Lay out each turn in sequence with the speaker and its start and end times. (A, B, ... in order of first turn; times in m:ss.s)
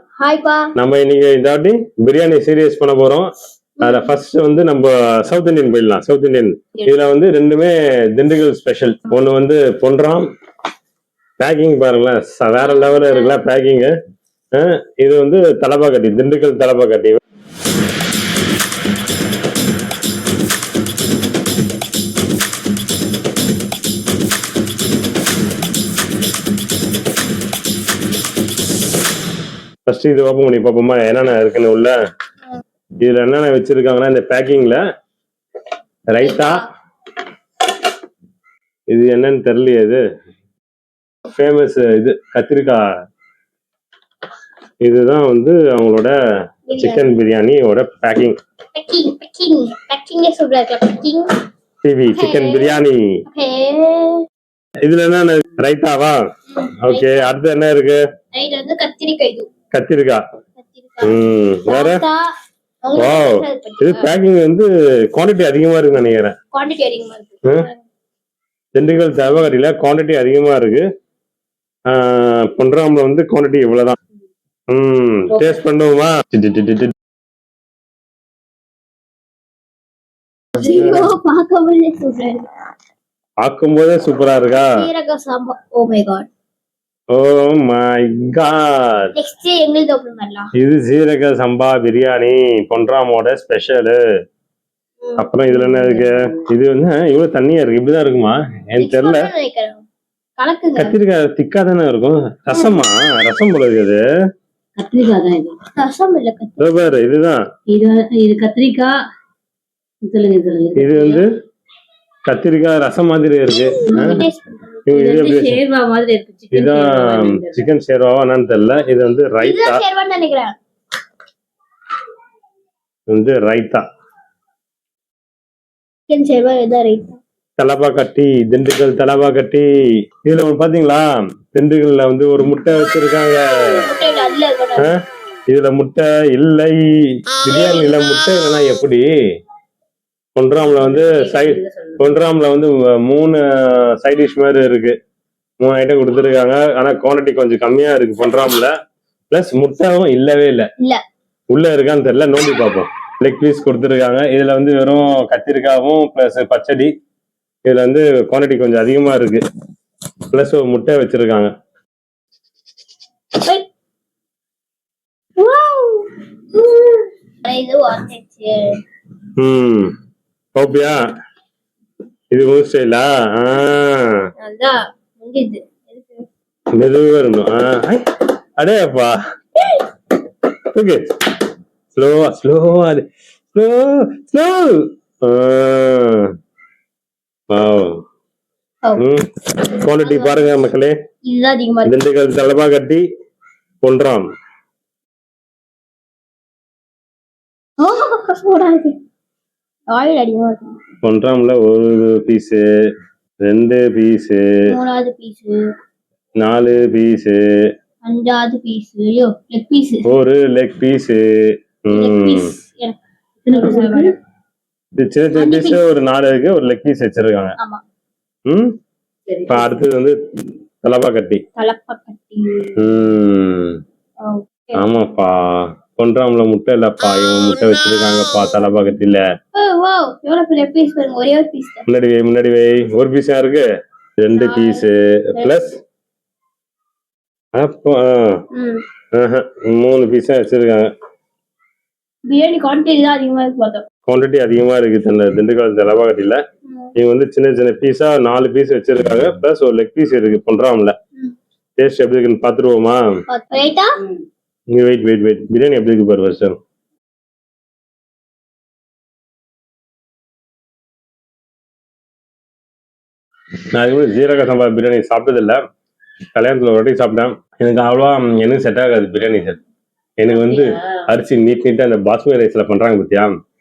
0:00.2-0:00.7 A
0:00.8-0:03.3 B
0:03.8-0:04.1 A
0:03.8-0:10.3 B
0:11.4-0:13.9 B
0:12.6-0:13.4 A
0:14.5-0:17.2 B
0:29.9-0:31.9 B
0:33.0-0:34.8 B
0:36.1-0:36.7 B
0:36.2-0:36.7 A
0:38.9-0:40.0 B
0:41.3-0:42.8 B
0:44.8-0:46.1 B
0:46.7-0:47.0 A
0:46.8-0:48.4 B
0:48.8-0:51.3 A
0:51.8-0:53.0 B
0:52.1-0:54.2 A
0:54.9-0:56.2 B
0:56.5-0:57.3 A
0:56.8-0:58.0 B
0:58.3-0:59.5 A
0:59.7-1:00.2 B
1:00.6-1:02.3 A
1:01.0-1:02.0 B
1:02.8-1:04.1 A
1:03.0-1:06.4 B
1:06.5-1:07.8 A
1:08.8-1:10.8 B
1:11.9-1:14.0 B
1:14.7-1:16.9 B
1:15.3-1:15.6 C
1:20.6-1:22.5 A
1:20.6-1:21.0 B
1:23.4-1:24.7 B
1:24.7-1:26.3 A
1:27.1-1:28.9 B
1:29.2-1:30.5 A
1:30.6-1:34.0 B
1:35.0-1:35.3 A
1:35.2-1:39.2 B
1:35.5-1:36.4 C
1:38.8-1:39.8 A
1:40.4-1:40.9 A
1:40.8-1:44.0 B
1:42.5-1:42.8 A
1:44.8-1:45.6 C
1:45.8-1:46.9 A
1:46.6-1:47.4 B
1:47.7-1:49.0 C
1:50.0-1:51.2 C
1:50.8-1:51.3 B
1:52.3-1:54.2 B
1:53.9-1:54.8 A
1:53.9-1:54.2 C
1:54.9-1:55.6 B
1:54.9-1:57.7 C
1:56.5-1:59.8 B
1:59.4-2:00.6 A
2:03.1-2:03.8 B
2:06.1-2:07.2 A
2:07.6-2:09.7 B
2:10.2-2:13.8 B
2:13.7-2:14.9 A
2:15.5-2:16.8 B
2:17.4-2:19.1 B
2:20.4-2:25.0 B
2:20.8-2:22.1 C
2:25.6-2:28.7 B
2:29.3-2:30.7 B
2:31.5-2:36.9 B
2:37.7-2:39.4 B
2:40.3-2:41.5 B
2:45.4-2:48.8 A
2:49.4-2:49.9 B
2:50.6-2:51.0 B
2:52.3-2:54.1 B
2:54.4-2:56.3 A
2:56.8-2:58.0 B
2:58.6-2:59.2 B
3:00.7-3:01.1 B
3:02.0-3:06.3 B
3:07.5-3:08.0 B
3:09.0-3:11.0 B
3:09.9-3:10.6 A
3:11.2-3:12.0 A
3:11.8-3:13.1 B
3:13.8-3:14.3 B
3:17.8-3:19.0 A
3:19.9-3:20.8 A
3:21.0-3:22.6 B
3:23.5-3:24.4 B
3:24.7-3:25.6 A
3:26.4-3:27.4 B
3:28.0-3:30.1 A
3:30.0-3:31.2 B
3:31.9-3:32.5 B
3:31.9-3:33.0 A
3:33.4-3:34.1 C
3:33.5-3:34.1 A
3:35.0-3:37.6 B
3:35.3-3:35.8 A
3:38.5-3:38.7 B
3:39.3-3:39.7 C
3:39.5-3:40.2 B
3:40.8-3:41.4 B
3:41.6-3:42.8 A
3:42.8-3:43.8 B
3:44.2-3:44.9 A
3:44.7-3:49.2 B
3:49.5-3:51.8 A
3:51.9-3:53.6 B
3:54.2-3:55.8 B
3:54.4-3:55.5 A
3:57.6-3:58.4 B
3:58.5-3:58.8 A
3:59.1-4:00.9 B
4:02.3-4:03.8 A
4:04.1-4:06.4 B
4:07.0-4:11.0 B
4:11.8-4:13.0 B
4:13.3-4:13.9 A
4:14.7-4:16.6 B
4:23.8-4:25.6 B
4:26.4-4:29.6 B
4:30.2-4:33.3 B
4:30.3-4:31.0 C